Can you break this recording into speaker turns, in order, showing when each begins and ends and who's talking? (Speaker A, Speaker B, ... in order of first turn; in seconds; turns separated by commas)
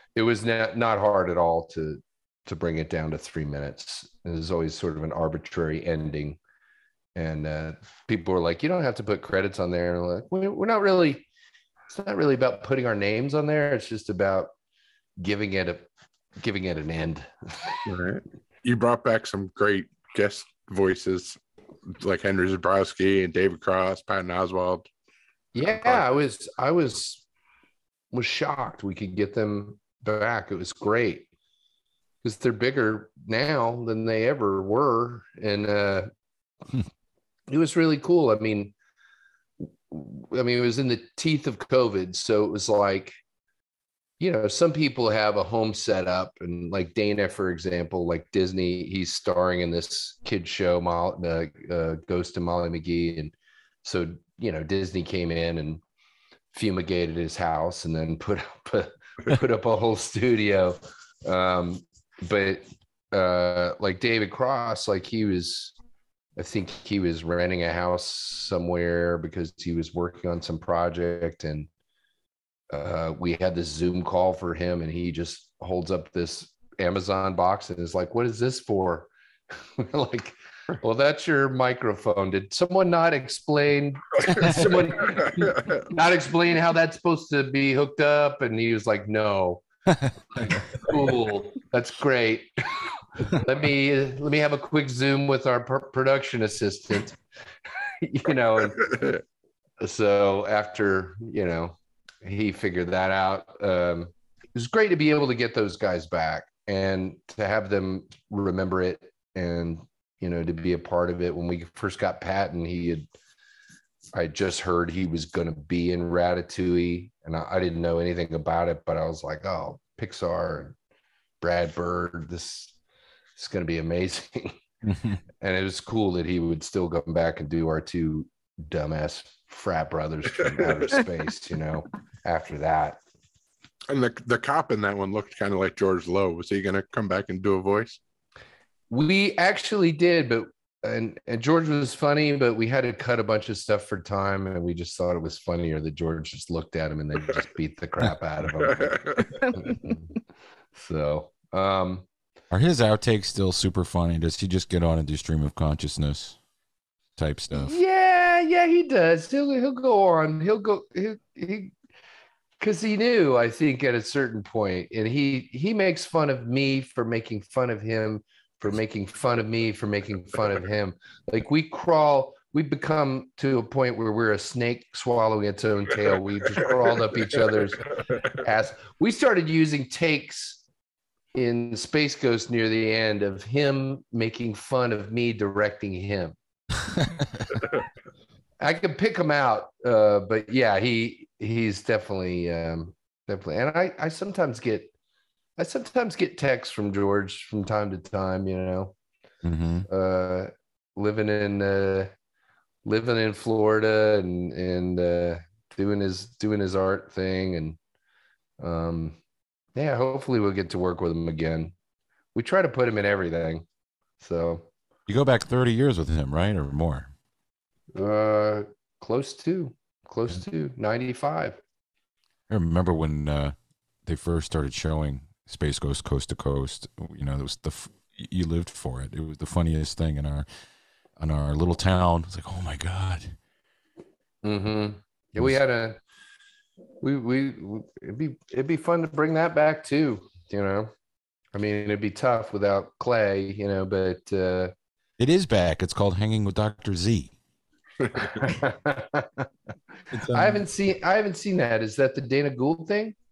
Speaker A: 0.1-6.4, Speaker A: 7.2-11.3, Speaker A: 11.9-14.5, Speaker A: 15.2-15.9, Speaker A: 16.4-17.8, Speaker B: 17.9-21.4, Speaker B: 21.9-24.9, Speaker A: 25.5-27.3, Speaker B: 25.6-26.1, Speaker A: 28.1-31.3, Speaker A: 32.2-36.1, Speaker A: 37.5-38.7, Speaker A: 39.9-43.2, Speaker A: 44.2-55.8, Speaker A: 56.5-65.8, Speaker A: 66.4-71.7, Speaker A: 72.7-79.1, Speaker A: 79.8-89.7, Speaker B: 85.3-85.6, Speaker A: 90.4-92.5, Speaker A: 93.2-97.2, Speaker A: 98.0-99.2, Speaker A: 99.8-113.1, Speaker A: 114.1-120.8, Speaker A: 121.4-122.8, Speaker A: 123.4-124.6, Speaker C: 124.9-125.2, Speaker A: 125.4-133.0, Speaker B: 133.9-138.0, Speaker A: 138.9-150.1, Speaker B: 148.6-149.2, Speaker A: 150.7-152.1, Speaker C: 152.5-156.4, Speaker C: 157.2-157.8, Speaker A: 157.5-161.8, Speaker A: 162.6-177.9, Speaker A: 178.4-180.6, Speaker A: 181.3-186.4, Speaker C: 186.9-187.5, Speaker A: 188.6-194.9, Speaker A: 195.6-199.0, Speaker C: 199.4-199.9, Speaker A: 199.9-202.1, Speaker A: 202.8-207.8, Speaker A: 208.6-209.2, Speaker A: 209.8-211.8, Speaker A: 212.3-213.7, Speaker A: 214.2-214.7, Speaker C: 215.1-217.1, Speaker A: 217.9-221.6, Speaker C: 222.5-223.6, Speaker C: 224.1-230.5, Speaker C: 231.2-233.4, Speaker A: 234.4-236.0, Speaker A: 237.0-240.9, Speaker A: 241.5-244.7, Speaker C: 245.2-247.3, Speaker A: 248.4-249.5, Speaker C: 250.1-250.7, Speaker A: 250.3-253.2